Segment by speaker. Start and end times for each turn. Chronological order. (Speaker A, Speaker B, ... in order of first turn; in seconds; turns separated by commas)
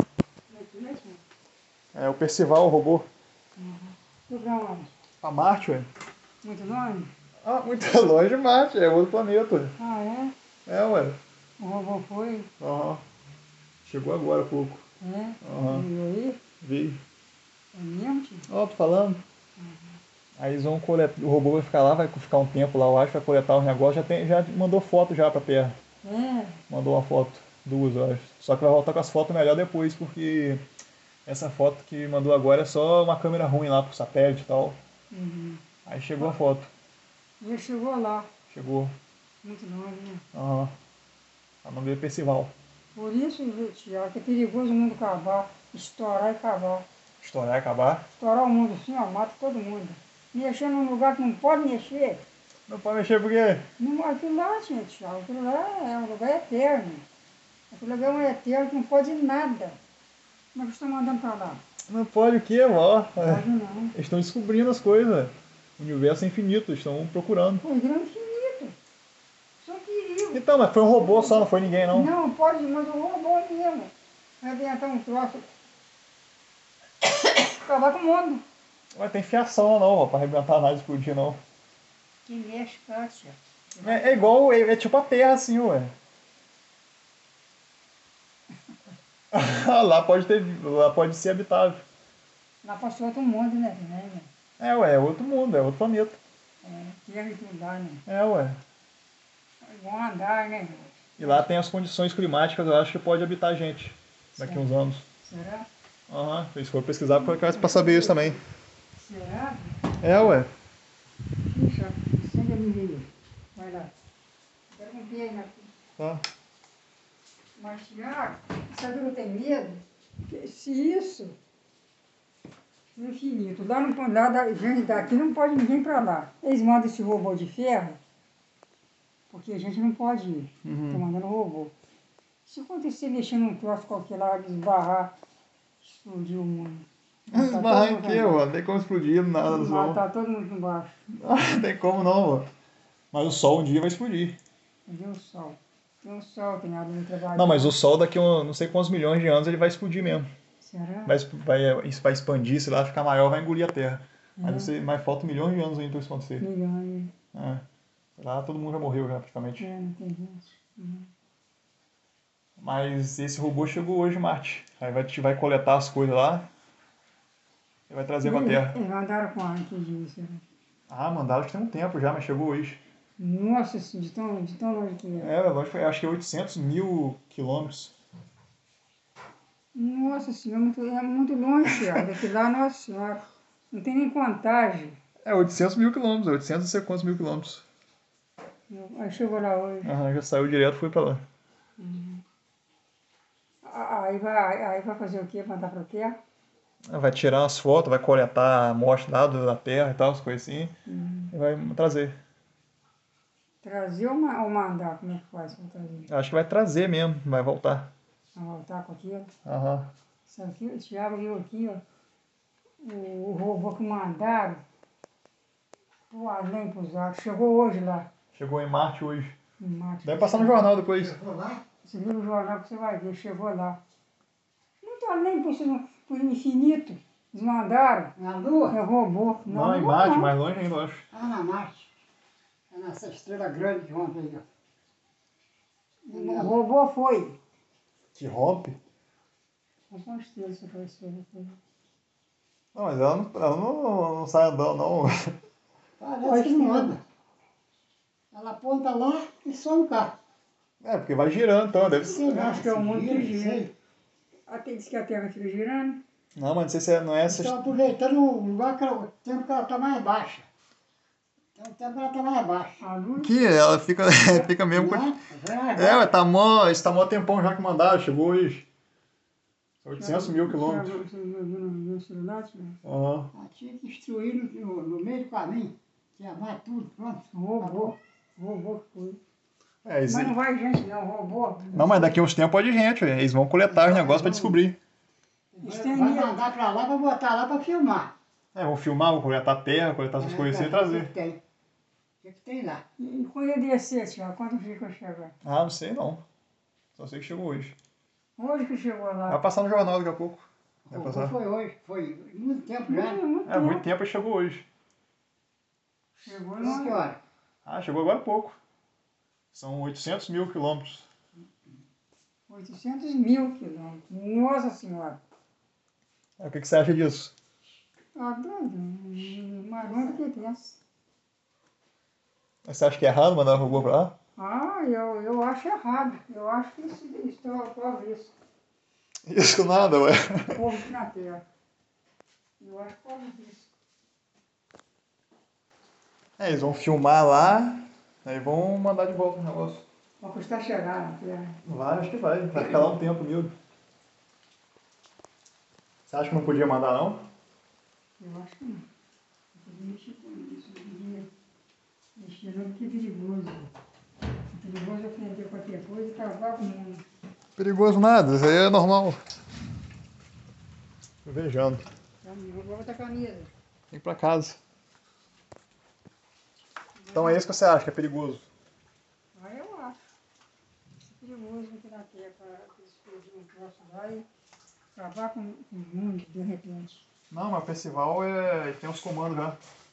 Speaker A: 0.5-1.2, Speaker B: 1.9-3.1, Speaker A: 3.6-4.9, Speaker B: 5.2-5.9, Speaker A: 6.4-7.1, Speaker B: 7.4-9.8, Speaker A: 9.8-10.3, Speaker B: 10.7-11.2, Speaker A: 11.6-12.5, Speaker B: 12.6-13.0, Speaker B: 13.8-14.8, Speaker A: 15.0-16.4, Speaker B: 15.4-15.9, Speaker B: 16.6-17.0, Speaker A: 17.7-18.5, Speaker B: 18.5-19.2, Speaker A: 19.6-20.0, Speaker B: 20.4-25.8, Speaker A: 26.0-26.6, Speaker B: 26.7-30.6, Speaker B: 31.3-34.8, Speaker A: 35.1-35.6, Speaker B: 35.9-36.7, Speaker A: 37.4-38.3, Speaker B: 38.5-39.0, Speaker A: 39.4-40.2, Speaker B: 40.3-40.7, Speaker B: 41.6-42.5, Speaker A: 43.0-46.9, Speaker B: 47.2-48.1, Speaker A: 48.2-52.2, Speaker B: 52.7-53.7, Speaker A: 53.8-57.1, Speaker A: 57.7-59.8, Speaker A: 60.5-61.6, Speaker B: 61.9-67.6, Speaker A: 63.2-64.0, Speaker A: 67.6-68.8, Speaker A: 69.6-75.5, Speaker B: 70.3-72.1, Speaker A: 77.0-78.4, Speaker B: 78.9-81.4, Speaker A: 82.3-84.3, Speaker B: 83.8-85.9, Speaker B: 89.3-91.8, Speaker A: 92.6-94.3, Speaker B: 94.6-96.2, Speaker A: 96.6-98.0, Speaker B: 98.1-98.6, Speaker A: 99.6-101.5, Speaker B: 101.2-105.0, Speaker A: 104.4-104.6, Speaker A: 105.2-105.7, Speaker B: 106.1-108.4, Speaker A: 107.1-108.4, Speaker A: 109.0-109.8, Speaker B: 110.0-110.5, Speaker A: 111.4-113.9, Speaker A: 114.7-115.7, Speaker B: 116.0-116.2, Speaker A: 117.6-121.4, Speaker A: 123.0-128.0, Speaker A: 129.3-131.7, Speaker B: 130.7-131.0, Speaker A: 132.4-135.1, Speaker A: 135.8-138.4, Speaker B: 137.3-140.0, Speaker A: 139.5-141.0, Speaker B: 141.2-142.5, Speaker B: 143.1-144.4, Speaker A: 144.9-147.8, Speaker B: 147.3-150.3, Speaker A: 150.6-151.2, Speaker B: 151.1-156.5, Speaker A: 154.4-154.7, Speaker A: 156.4-157.1, Speaker B: 157.3-157.6, Speaker B: 158.2-159.7, Speaker A: 159.6-161.1, Speaker B: 162.6-166.5, Speaker B: 167.9-168.8, Speaker A: 168.2-170.4, Speaker B: 170.9-172.8, Speaker A: 173.2-175.3, Speaker B: 175.2-177.9, Speaker A: 179.7-185.0, Speaker B: 181.7-182.1, Speaker B: 185.2-187.6, Speaker A: 188.7-189.9, Speaker B: 189.8-191.2, Speaker A: 191.8-192.2, Speaker A: 193.6-196.2, Speaker B: 196.9-200.8, Speaker A: 200.9-201.3, Speaker B: 201.3-202.2, Speaker A: 203.6-206.1, Speaker B: 206.1-207.9, Speaker A: 208.4-209.3, Speaker B: 209.5-209.9, Speaker A: 210.3-211.8, Speaker A: 212.8-214.6, Speaker A: 216.1-218.1, Speaker B: 218.3-219.3, Speaker A: 219.6-220.7, Speaker B: 220.0-221.2, Speaker C: 221.0-221.6, Speaker A: 221.8-223.8, Speaker A: 224.8-228.1, Speaker C: 228.2-228.8, Speaker A: 228.7-230.3, Speaker B: 229.5-231.1, Speaker C: 231.1-231.9, Speaker C: 232.7-234.4, Speaker A: 236.1-237.4, Speaker C: 236.1-236.6, Speaker B: 238.2-238.8, Speaker A: 239.9-241.6, Speaker B: 242.8-245.3, Speaker C: 246.0-247.0, Speaker A: 246.2-247.0, Speaker C: 248.3-250.2, Speaker B: 250.8-252.2, Speaker C: 252.0-253.7, Speaker A: 252.2-253.7, Speaker A: 254.5-256.0, Speaker B: 256.4-257.7, Speaker C: 257.3-260.5, Speaker C: 261.6-262.8, Speaker A: 262.8-263.3, Speaker B: 263.2-265.2, Speaker C: 264.7-266.1, Speaker B: 265.7-268.7, Speaker B: 269.8-271.0, Speaker A: 269.9-272.8, Speaker B: 272.8-273.3, Speaker C: 273.3-277.9, Speaker A: 277.3-279.2, Speaker B: 279.9-280.4, Speaker A: 280.1-282.2, Speaker B: 281.7-284.8, Speaker C: 283.7-284.6, Speaker C: 285.5-288.1, Speaker A: 285.6-286.4, Speaker B: 288.5-291.1, Speaker C: 290.2-291.4, Speaker C: 292.2-292.8, Speaker A: 293.0-295.3, Speaker B: 295.4-296.2, Speaker B: 297.0-297.8, Speaker A: 298.4-299.4, Speaker B: 299.3-301.4, Speaker C: 300.9-303.2, Speaker A: 302.9-303.8, Speaker B: 303.5-304.7, Speaker A: 306.1-307.0, Speaker C: 306.6-307.2, Speaker B: 307.6-308.6, Speaker B: 309.5-311.1, Speaker A: 312.5-315.2, Speaker B: 316.4-317.3, Speaker A: 318.1-320.8, Speaker B: 322.7-324.1, Speaker A: 324.4-328.3, Speaker B: 329.3-330.6, Speaker A: 330.5-331.4, Speaker A: 332.6-333.7, Speaker B: 336.4-339.9, Speaker A: 340.2-341.6, Speaker B: 341.6-343.5, Speaker B: 346.1-347.2, Speaker A: 348.2-348.9, Speaker A: 349.5-351.3, Speaker A: 352.2-353.7, Speaker A: 354.5-357.1, Speaker B: 357.6-359.2, Speaker B: 361.2-361.9, Speaker A: 362.2-363.5, Speaker B: 363.9-364.6, Speaker A: 367.0-367.5, Speaker B: 367.1-368.5, Speaker A: 369.4-370.0, Speaker A: 371.0-374.3, Speaker A: 374.9-377.0, Speaker B: 377.3-379.6